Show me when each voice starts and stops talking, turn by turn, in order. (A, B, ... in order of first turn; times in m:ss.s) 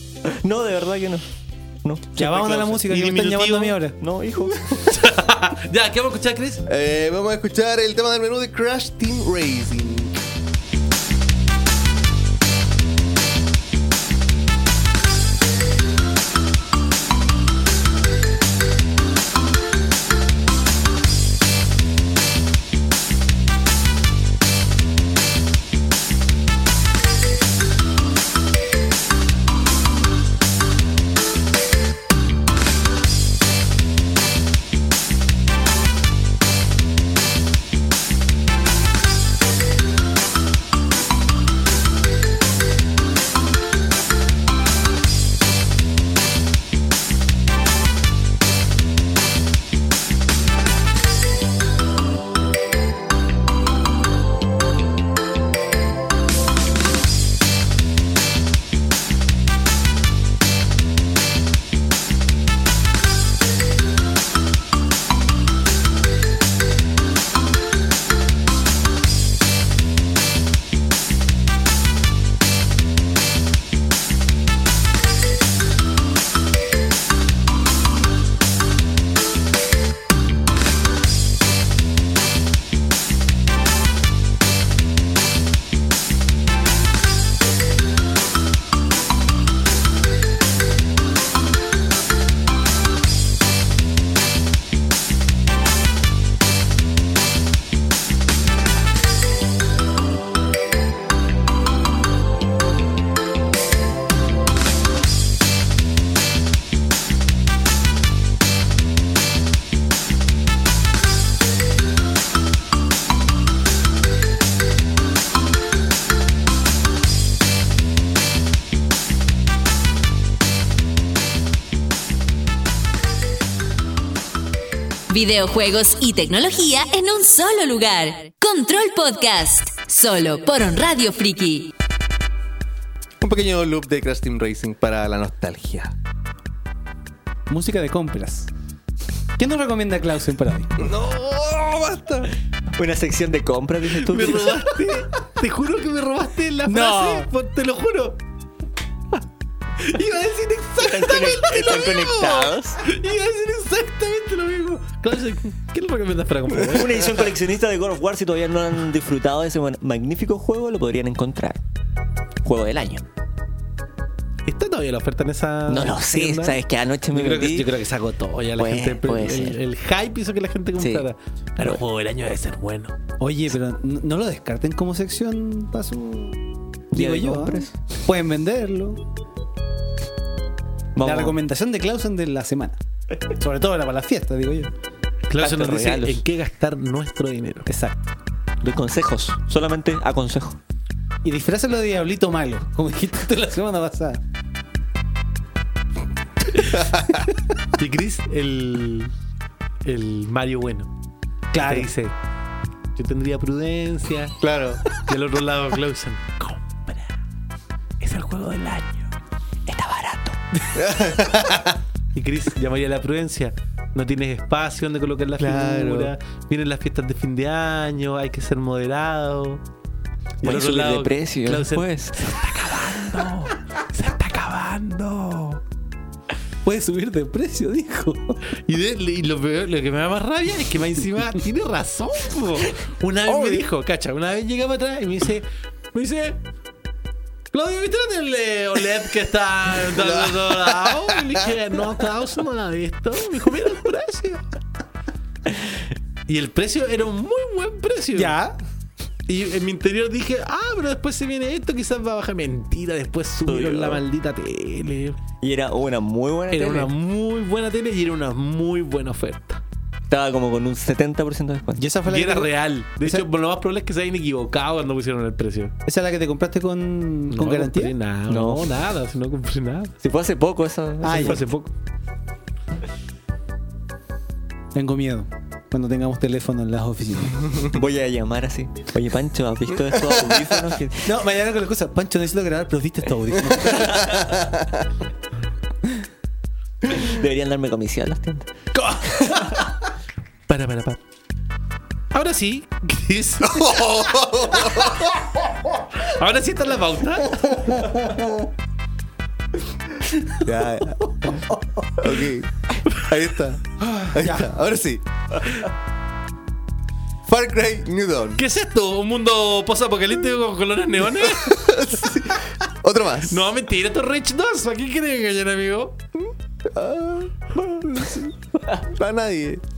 0:00.2-0:01.2 A
0:01.8-0:02.9 A
0:02.2-0:04.0 B
0:02.9-0:03.8 C
0:04.0-0:04.8 A
0:04.9-0:06.6 C
0:06.7-0:10.2 D
2:05.1-2:11.7 E
2:13.2-2:15.9 D
2:17.5-2:18.5 B
2:19.4-2:20.8 B
2:20.8-2:22.3 D
2:22.8-2:24.6 A
2:24.0-2:28.2 C
2:26.7-2:27.3 B
2:29.8-2:37.1 C
2:30.8-2:32.8 A
2:36.6-2:41.6 A
2:42.4-2:43.0 A
2:44.5-2:46.6 C
2:45.7-2:47.7 A
2:47.1-2:52.9 C
2:48.6-2:49.6 A
2:50.8-2:51.1 A
2:53.2-2:56.4 B
2:56.9-2:57.8 A
2:56.9-2:59.0 B
3:01.0-3:01.4 A
3:01.0-3:02.8 B
3:03.4-3:04.7 B
3:05.3-3:07.7 C
3:05.4-3:06.2 A
3:07.7-3:08.1 B
3:08.6-3:10.6 A
3:11.2-3:14.2 B
3:16.5-3:16.8 C
3:17.8-3:19.1 C
3:19.8-3:20.9 C
3:21.5-3:21.9 B
3:21.6-3:22.2 C
3:23.0-3:24.4 C
3:24.4-3:24.8 D
3:25.0-3:27.2 C
3:28.0-3:29.1 C
3:29.7-3:30.4 A
3:30.8-3:31.8 D
3:32.2-3:39.6 C
3:35.4-3:36.1 D
3:40.4-3:42.4 A
3:40.4-3:45.6 C
3:46.6-3:48.4 B
3:48.5-3:56.4 C
3:57.5-4:04.4 C
3:59.9-4:01.4 D
4:06.3-4:08.4 C
4:08.1-4:08.6 B
4:09.3-4:15.2 C
4:13.5-4:14.0 A
4:15.4-4:16.9 A
4:16.5-4:19.6 C
4:20.1-4:21.8 A
4:21.8-4:23.3 B
4:22.1-4:25.8 C
4:25.9-4:28.0 B
4:27.3-4:30.0 C
4:28.3-4:28.7 A
4:30.0-4:31.4 A
4:31.0-4:31.4 B
4:31.1-4:31.7 C
4:34.8-4:37.4 B
4:37.7-4:41.1 A
4:40.1-4:40.5 D
4:41.0-4:44.1 B
4:43.6-4:44.9 D
4:46.9-4:48.5 A
4:48.8-4:49.7 C
4:50.5-4:51.0 C
4:52.1-4:54.1 C
4:53.4-4:55.1 D
4:56.0-4:57.9 C
5:00.4-5:01.3 D
5:02.0-5:05.0 D
5:04.0-5:04.4 B
5:07.3-5:08.4 D
5:08.4-5:11.7 C
5:11.3-5:13.5 D
5:13.3-5:16.0 C
5:16.2-5:19.6 D